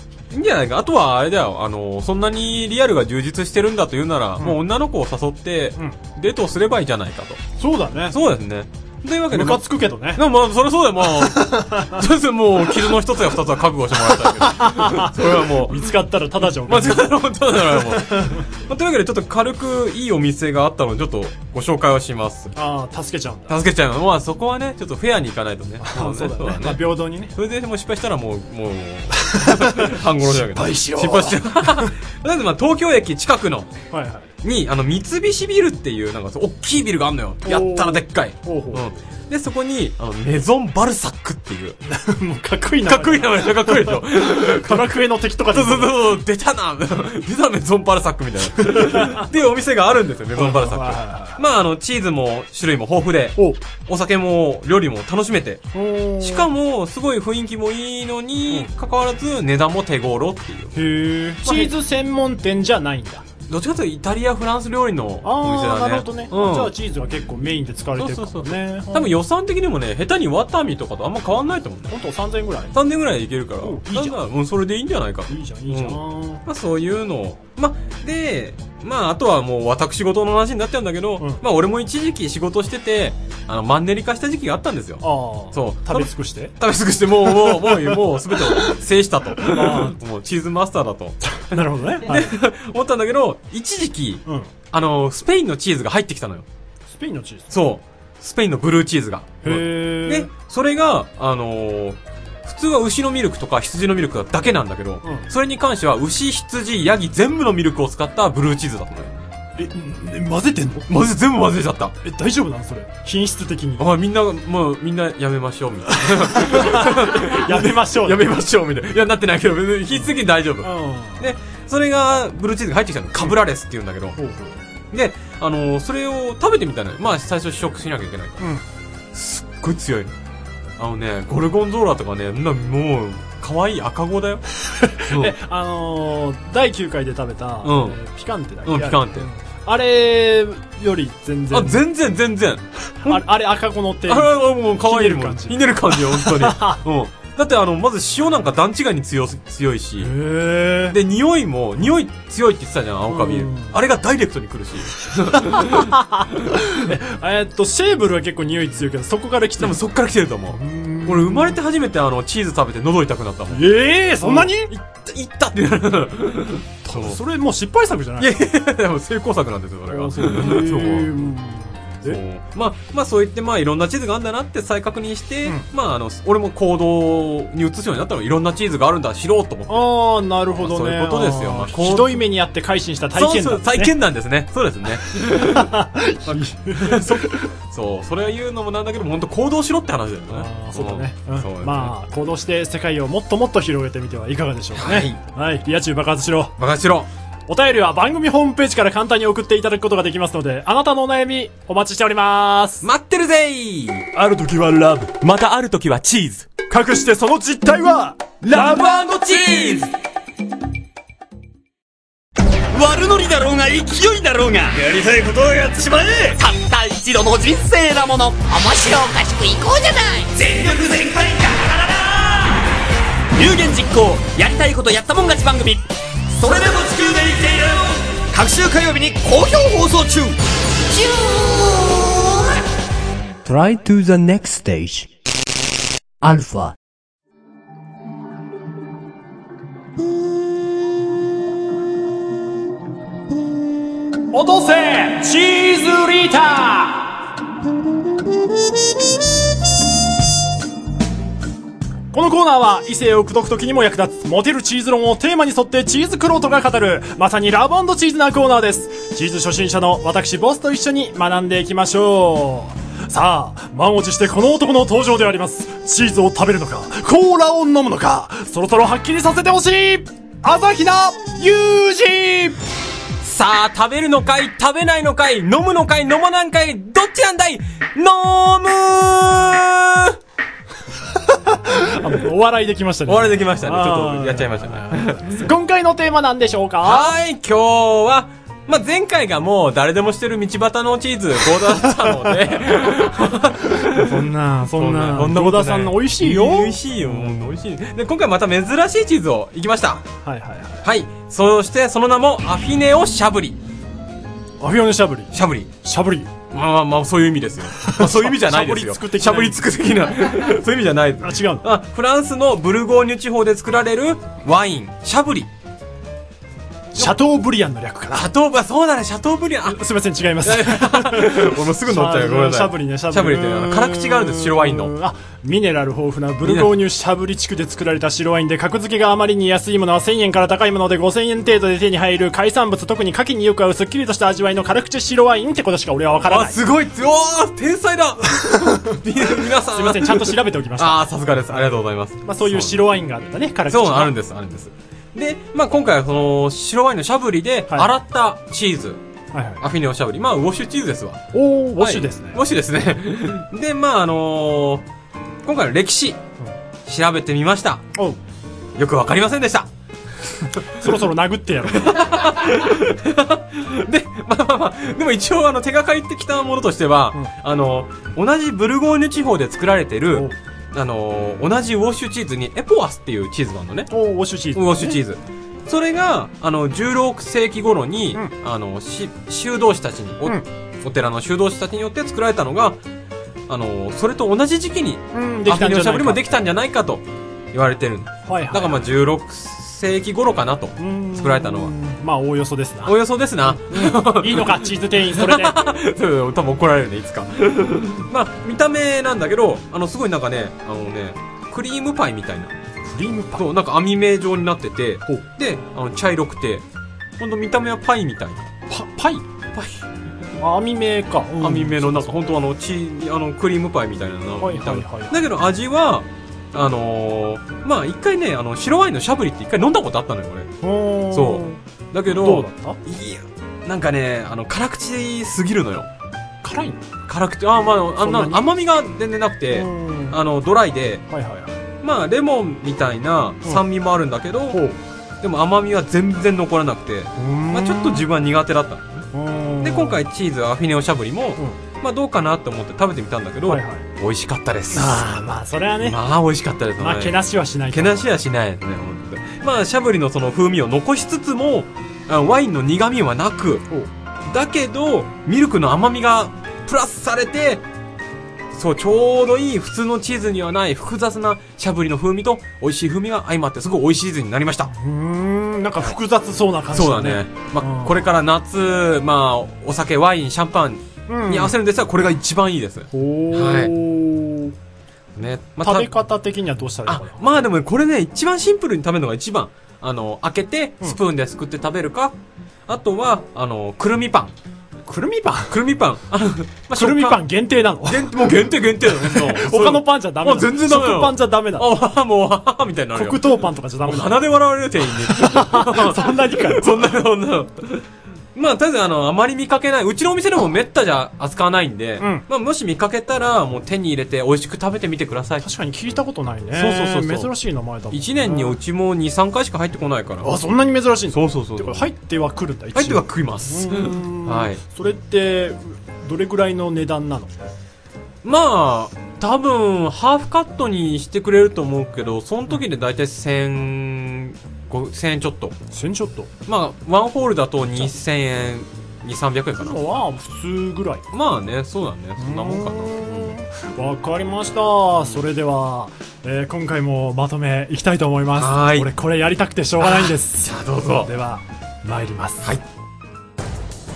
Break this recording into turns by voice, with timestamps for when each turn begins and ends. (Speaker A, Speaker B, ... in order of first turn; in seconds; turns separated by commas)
Speaker A: 0.3-7.4, Speaker B: 7.6-8.2, Speaker A: 8.1-22.5, Speaker B: 9.3-10.2, Speaker B: 11.2-12.0, Speaker B: 14.1-18.5, Speaker B: 22.6-23.6, Speaker A: 23.5-26.8, Speaker B: 25.8-27.3, Speaker A: 27.3-33.7, Speaker B: 29.1-31.9, Speaker B: 33.9-34.3, Speaker A: 34.4-41.8, Speaker B: 37.4-38.9, Speaker B: 41.9-46.0, Speaker A: 42.9-45.0, Speaker A: 45.5-55.7, Speaker B: 48.6-49.3, Speaker B: 50.4-51.4, Speaker B: 55.7-56.5, Speaker A: 56.2-60.8, Speaker B: 60.8-63.2, Speaker A: 61.4-61.7, Speaker A: 63.5-66.7, Speaker B: 65.2-69.2, Speaker A: 68.0-72.0, Speaker B: 71.9-72.8, Speaker A: 72.7-96.5, Speaker B: 73.6-74.2, Speaker B: 75.3-76.4, Speaker B: 85.0-86.5, Speaker B: 87.3-88.0, Speaker B: 89.4-90.0, Speaker B: 91.3-92.3, Speaker B: 96.9-97.5, Speaker A: 97.5-109.2, Speaker B: 99.4-100.3, Speaker B: 109.6-110.9, Speaker A: 110.9-112.0, Speaker B: 112.0-113.9, Speaker A: 113.8-124.2, Speaker B: 116.1-118.3, Speaker B: 120.6-121.3, Speaker B: 124.2-124.6, Speaker A: 124.9-128.5, Speaker A: 129.1-130.1, Speaker A: 130.8-134.4, Speaker B: 134.7-141.8, Speaker A: 135.1-135.3, Speaker A: 137.6-138.0, Speaker A: 138.7-139.3, Speaker A: 141.5-143.2, Speaker B: 143.1-146.8, Speaker A: 144.1-150.1, Speaker B: 150.0-151.0, Speaker A: 150.9-155.9, Speaker B: 153.1-153.8, Speaker B: 155.4-159.8, Speaker A: 159.6-167.2, Speaker B: 160.5-161.6, Speaker B: 163.5-164.7, Speaker B: 166.9-168.3, Speaker A: 168.2-171.2, Speaker B: 169.9-172.2, Speaker A: 172.1-179.9, Speaker B: 179.7-183.9, Speaker A: 180.6-182.2, Speaker A: 183.2-191.9, Speaker B: 185.1-187.5, Speaker B: 190.3-196.6, Speaker A: 194.7-195.2, Speaker A: 196.6-197.1, Speaker B: 197.5-202.9, Speaker A: 202.8-204.1, Speaker B: 204.1-205.2, Speaker A: 205.2-206.5, Speaker B: 206.7-209.6, Speaker A: 208.5-209.9, Speaker C: 208.6-209.7, Speaker C: 212.7-222.6, Speaker C: 223.4-230.4, Speaker C: 230.9-232.4, Speaker D: 233.4-235.1, Speaker D: 236.2-236.8, Speaker B: 244.3-247.2, Speaker B: 252.1-272.6, Speaker A: 273.2-280.2, Speaker B: 281.3-287.1, Speaker A: 283.1-285.5, Speaker A: 286.8-300.1, Speaker B: 293.7-297.6, Speaker B: 300.2-300.9, Speaker A: 300.8-303.6, Speaker B: 304.6-305.3, Speaker A: 305.3-305.7, Speaker B: 305.8-306.3, Speaker A: 306.5-315.5, Speaker B: 307.8-309.6, Speaker B: 311.2-311.7, Speaker B: 316.9-318.3, Speaker A: 318.1-319.9, Speaker B: 319.7-336.6, Speaker A: 320.4-324.9, Speaker A: 326.4-326.8, Speaker A: 336.3-342.8, Speaker B: 338.4-344.1, Speaker A: 343.7-349.0, Speaker B: 349.3-349.7, Speaker A: 349.6-351.2, Speaker B: 351.3-352.4, Speaker A: 351.8-354.9, Speaker A: 355.4-356.2, Speaker A: 356.9-357.9, Speaker A: 358.8-359.7, Speaker B: 360.8-362.1, Speaker A: 361.7-373.9, Speaker B: 373.9-375.0, Speaker A: 374.5-382.8, Speaker A: 383.5-391.7, Speaker B: 385.1-386.3, Speaker B: 388.3-388.8, Speaker B: 390.8-392.9, Speaker A: 392.9-402.5, Speaker B: 393.5-395.6, Speaker B: 402.9-403.5, Speaker A: 403.4-406.6, Speaker A: 407.2-408.5, Speaker B: 408.7-409.2, Speaker A: 409.6-409.8, Speaker B: 410.4-412.1, Speaker A: 411.4-420.5, Speaker B: 414.4-415.2, Speaker B: 420.6-421.6, Speaker A: 421.1-425.9, Speaker B: 422.1-422.8, Speaker B: 426.4-426.8, Speaker A: 427.1-431.1, Speaker B: 428.0-428.4, Speaker B: 429.5-430.2, Speaker B: 431.1-431.5, Speaker A: 431.8-434.6, Speaker B: 434.5-434.8, Speaker A: 435.2-439.1, Speaker B: 437.2-438.1, Speaker B: 439.1-440.0, Speaker A: 439.6-445.0, Speaker B: 443.5-443.9, Speaker B: 444.7-446.0, Speaker A: 445.8-447.2, Speaker B: 446.8-448.1, Speaker A: 447.7-453.7, Speaker A: 454.3-457.6, Speaker A: 458.5-464.7, Speaker B: 464.7-468.0, Speaker A: 466.7-473.7, Speaker B: 471.1-471.6, Speaker B: 472.9-474.5, Speaker A: 475.2-475.9, Speaker B: 475.6-477.2, Speaker A: 476.9-482.1, Speaker A: 482.7-484.3, Speaker B: 484.9-485.6, Speaker A: 485.5-487.2, Speaker B: 486.7-491.7, Speaker A: 487.9-493.3, Speaker B: 492.9-494.2, Speaker A: 493.9-505.5, Speaker B: 495.0-496.9, Speaker B: 502.0-502.2, Speaker B: 505.4-508.6, Speaker A: 506.5-507.3, Speaker A: 507.9-510.3, Speaker B: 510.2-517.4, Speaker A: 511.1-511.9, Speaker A: 512.8-514.6, Speaker A: 518.2-525.6, Speaker B: 525.7-526.3, Speaker A: 526.5-529.8, Speaker B: 529.6-531.0, Speaker A: 531.1-533.3, Speaker B: 532.2-542.5, Speaker A: 538.4-538.9, Speaker A: 539.8-541.1